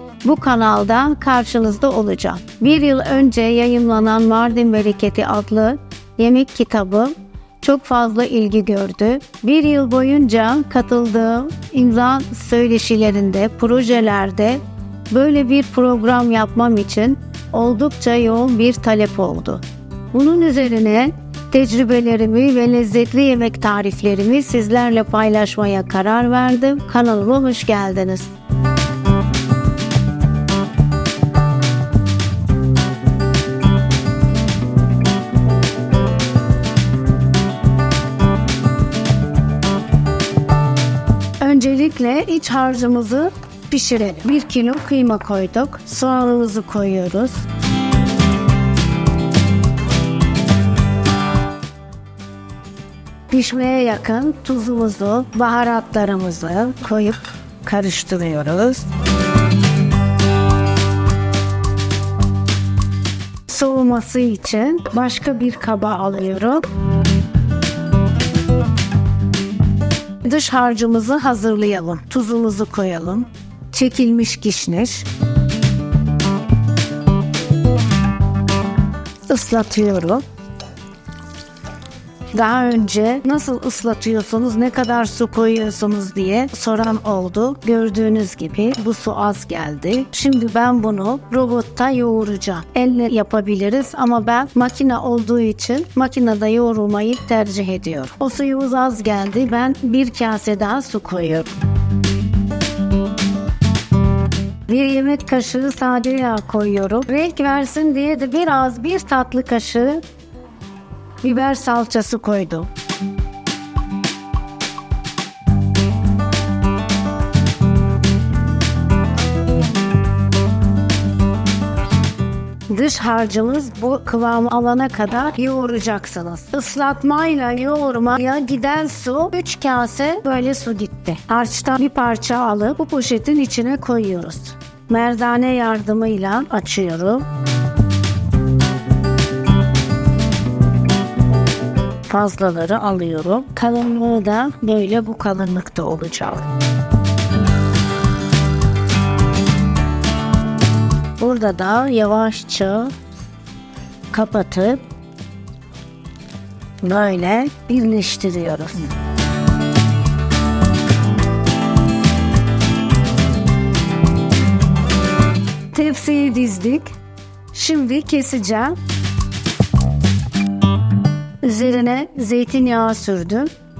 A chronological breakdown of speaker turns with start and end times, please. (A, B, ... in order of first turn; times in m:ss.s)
0:00.2-0:28.3 A
0:41.4-0:47.4 A
0:53.3-0:58.9 A
1:03.5-1:06.6 A
1:10.2-1:15.1 A
1:19.3-1:20.2 A
1:22.3-1:41.6 A
1:44.7-1:50.0 A
1:51.2-1:52.7 A
2:02.7-2:17.3 A
2:22.1-2:26.5 A
2:31.2-2:32.9 A
2:34.1-2:34.8 A
2:36.8-2:38.9 A
2:45.7-2:46.9 A
2:47.5-2:48.8 A
2:51.4-2:53.5 A